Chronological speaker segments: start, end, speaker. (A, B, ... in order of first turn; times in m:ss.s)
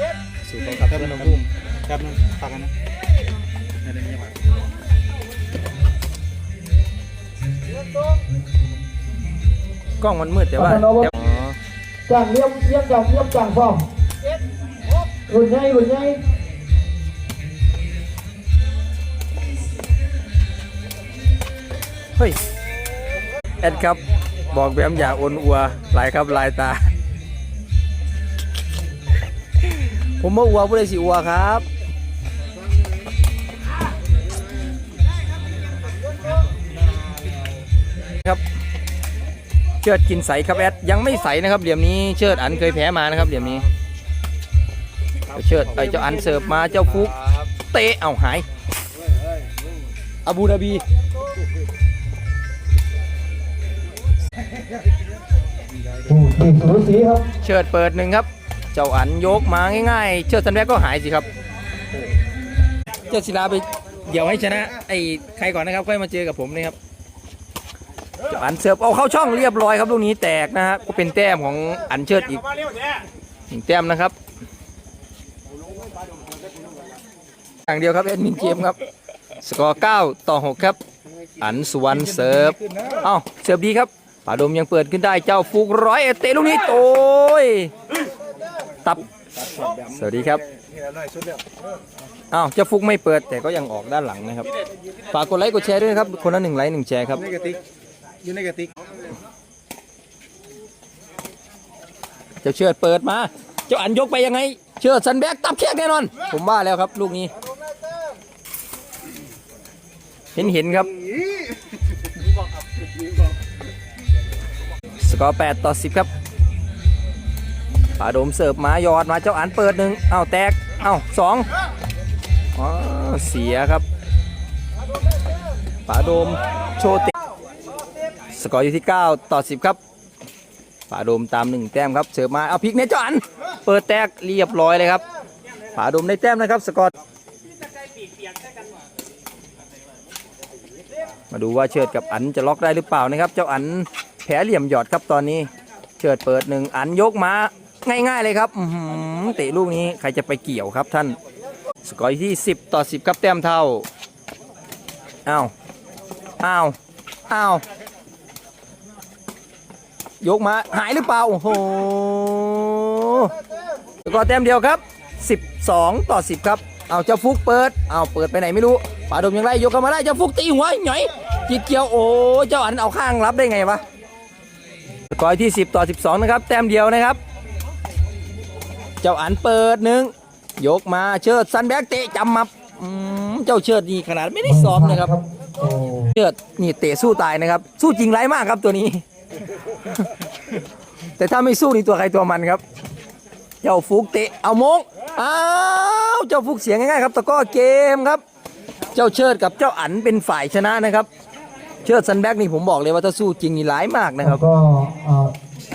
0:00.5-0:01.4 A
0:00.5-0:02.7 B
0:03.8-0:04.3 B
0:10.0-0:11.6 A
0:10.6-0:11.1 C
0:12.1-0:13.9 C
0:15.3-0:16.2 C
0:23.6-0:26.9 A
0:29.6-0:31.6 A
0:39.8-0:43.7 A
0:45.3-0:48.4 A
0:50.3-0:50.8 A
0:56.1-0:57.3 C
0:57.4-1:01.3 A
1:03.1-1:06.8 A
1:08.3-1:12.4 A
1:13.5-1:14.1 A
1:17.7-1:18.8 A
1:19.4-1:20.8 A
1:21.4-1:27.7 A
1:29.8-1:30.4 A
1:32.3-1:34.5 A
1:35.1-1:37.3 A
1:37.2-1:37.6 B
1:38.2-1:38.7 B
1:42.4-1:47.3 A
1:50.4-1:50.9 A
1:55.0-1:56.1 A
1:58.0-2:01.5 A
2:02.6-2:03.8 A
2:05.9-2:07.1 A
2:08.3-2:09.8 A
2:10.9-2:15.0 A
2:15.8-2:16.9 A
2:21.3-2:25.5 A
2:26.0-2:31.2 A
2:31.8-2:33.9 A
2:35.3-2:35.5 A
2:36.4-2:36.8 A
2:37.3-2:37.6 A
2:40.2-2:43.3 A
2:44.0-2:53.8 A
2:55.1-2:57.2 A
2:59.0-3:05.1 A
3:04.4-3:06.2 C
3:06.2-3:09.0 A
3:11.2-3:12.6 A
3:13.6-3:18.2 A
3:18.9-3:21.1 A
3:21.8-3:24.4 A
3:24.2-3:25.3 C